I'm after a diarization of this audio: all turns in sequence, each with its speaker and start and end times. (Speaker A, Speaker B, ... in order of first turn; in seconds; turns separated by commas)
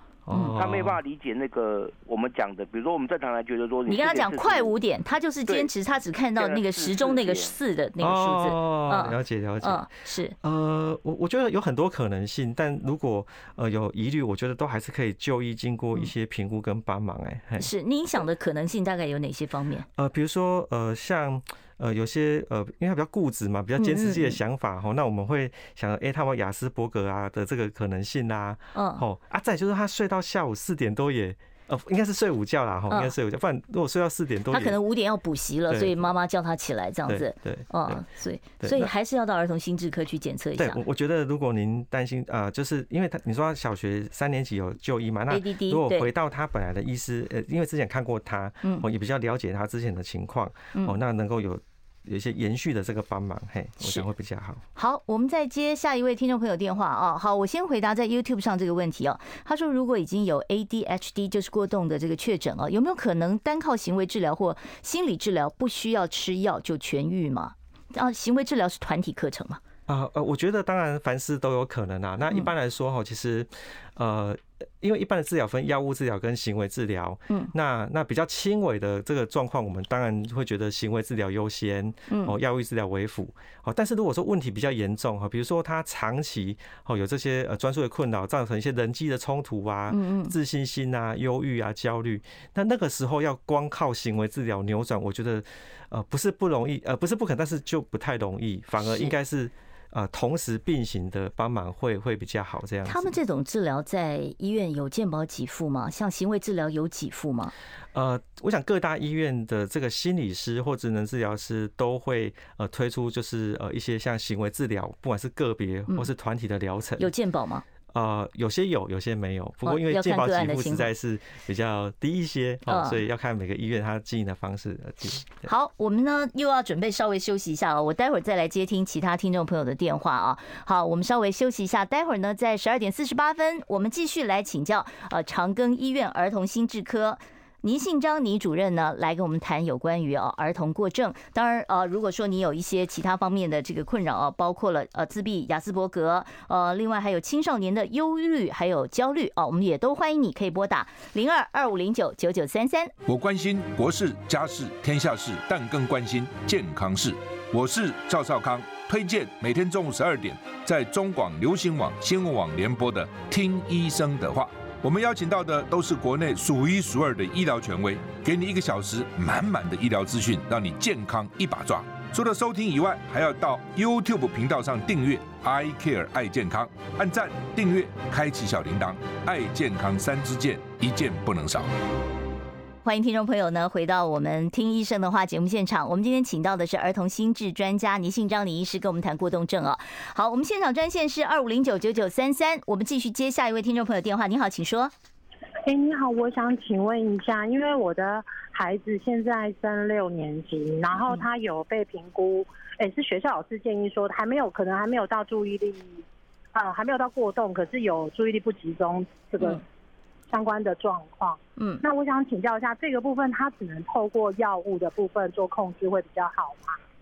Speaker A: 0.2-1.0, Speaker B: 0.3-0.6, Speaker C: 0.6-4.7, Speaker B: 3.9-10.3, Speaker C: 6.3-7.5, Speaker A: 8.0-9.9, Speaker A: 10.4-17.7, Speaker B: 17.6-19.9, Speaker A: 20.0-34.8, Speaker B: 23.8-24.4, Speaker B: 28.7-29.0, Speaker B: 34.5-40.8, Speaker A: 35.7-36.0, Speaker A: 37.1-38.0, Speaker A: 38.6-38.9, Speaker A: 40.6-54.6, Speaker B: 45.3-46.1, Speaker B: 54.8-69.6, Speaker A: 69.9-103.1, Speaker B: 82.1-82.3, Speaker B: 89.9-90.3, Speaker B: 98.8-99.1, Speaker B: 102.8-107.5, Speaker A: 107.9-117.1, Speaker B: 117.0-117.6, Speaker A: 117.9-125.5, Speaker B: 119.6-120.9, Speaker B: 122.7-123.0, Speaker B: 125.3-152.9, Speaker D: 153.1-181.7, Speaker B: 182.8-194.9, Speaker E: 195.6-206.0, Speaker E: 206.5-209.6, Speaker E: 210.3-216.8, Speaker B: 211.6-211.8